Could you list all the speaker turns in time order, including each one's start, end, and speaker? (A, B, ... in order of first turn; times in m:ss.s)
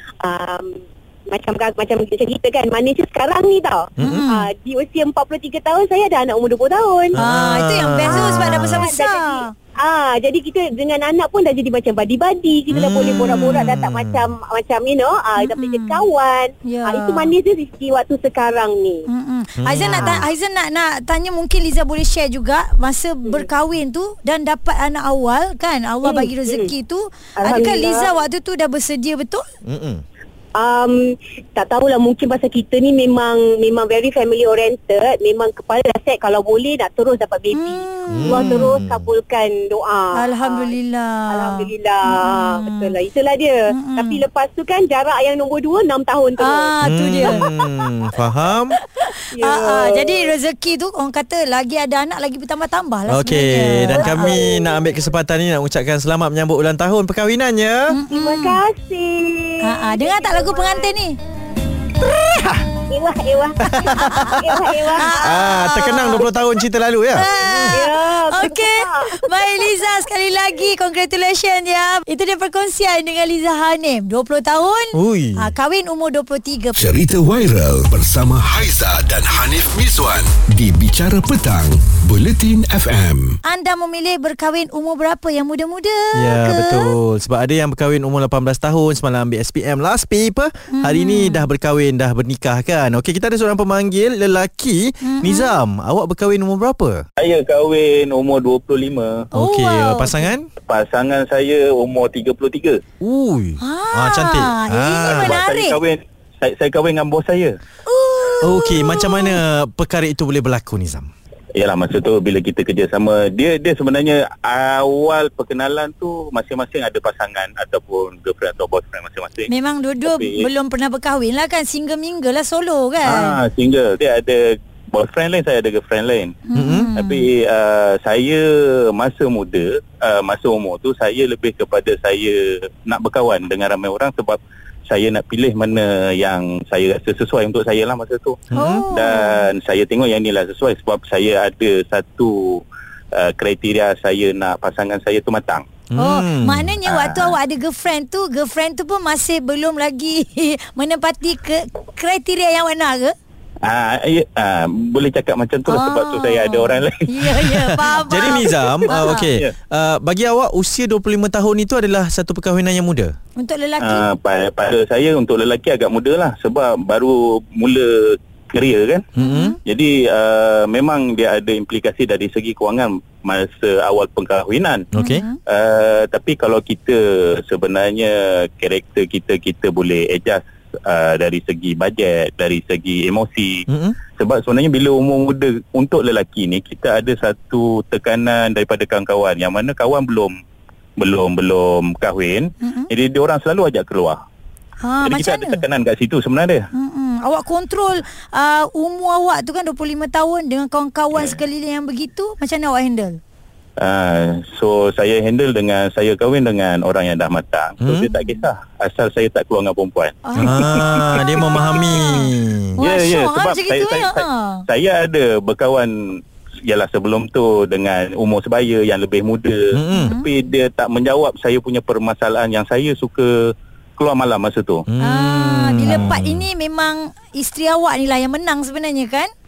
0:00.2-0:07.2 A
0:04.0-0:04.2 B
0:04.0-0:04.4 C
0:07.1-0:08.8 B
0:07.2-0:09.5 C
0:08.1-0:19.1 A
0:12.7-0:14.3 B
0:15.4-0:16.0 C
0:16.7-0:17.3 C
0:19.1-0:29.4 C
0:19.6-0:20.2 B
0:19.8-0:20.2 A
0:26.0-0:26.7 A
0:27.4-0:28.1 A
0:29.6-0:30.0 B
0:30.6-0:40.8 A
0:37.5-0:38.8 C
0:38.1-0:39.0 B
0:40.2-0:42.9 C
0:41.3-0:47.4 A
0:43.7-0:44.2 C
0:46.4-0:47.4 C
0:46.8-0:48.8 B
0:49.3-0:50.3 A
0:49.4-0:54.4 C
0:53.1-0:57.9 B
0:54.0-0:54.8 A
0:57.9-0:58.6 C
0:58.1-1:01.0 A
0:59.6-1:01.2 C
1:02.4-1:02.6 B
1:02.9-1:05.2 A
1:03.7-1:04.5 B
1:04.0-1:04.3 C
1:05.0-1:06.2 C
1:05.1-1:07.8 B
1:07.2-1:17.0 C
1:07.7-1:09.8 A
1:14.9-1:15.5 B
1:16.8-1:23.4 D
1:23.4-1:26.9 C
1:26.2-1:37.0 B
1:30.7-1:31.5 C
1:35.0-1:35.6 C
1:37.2-1:39.3 E
1:39.3-1:40.5 B
1:39.4-1:40.3 C
1:40.7-1:42.8 E
1:43.0-1:45.4 B
1:43.6-1:45.8 C
1:45.0-1:47.5 E
1:47.9-1:49.4 C
1:48.4-1:51.1 B
1:51.6-1:59.5 E
1:59.5-2:03.3 C
2:00.0-2:00.5 E
2:03.1-2:06.4 E
2:06.5-2:07.2 C
2:06.6-2:06.9 B
2:07.0-2:18.4 E
2:18.5-2:18.8 B
2:18.6-2:19.4 C
2:18.9-2:25.6 E
2:25.9-2:26.7 B
2:26.0-2:33.2 C
2:26.9-2:27.4 E
2:33.6-2:36.9 E
2:35.7-2:39.3 C
2:37.4-2:43.1 B
2:37.9-2:39.5 E
2:43.4-2:44.0 C
2:43.8-2:49.0 E
2:49.2-2:49.6 B
2:49.2-2:49.6 C
2:49.6-2:54.9 E
2:54.9-2:55.2 B
2:55.0-2:55.4 C
2:55.5-3:03.6 E
3:03.7-3:04.0 B
3:04.2-3:10.4 E
3:11.0-3:14.2 E
3:12.6-3:12.9 C
3:14.8-3:15.6 C
3:15.0-3:16.7 E
3:16.7-3:23.2 C
3:23.8-3:31.8 E
3:27.8-3:28.1 B
3:30.3-3:34.6 C
3:30.4-3:32.8 B
3:32.8-3:43.3 E
3:39.7-3:40.1 B
3:39.9-3:40.2 C
3:44.0-3:44.8 E
3:44.9-3:46.5 B
3:45.0-3:49.3 C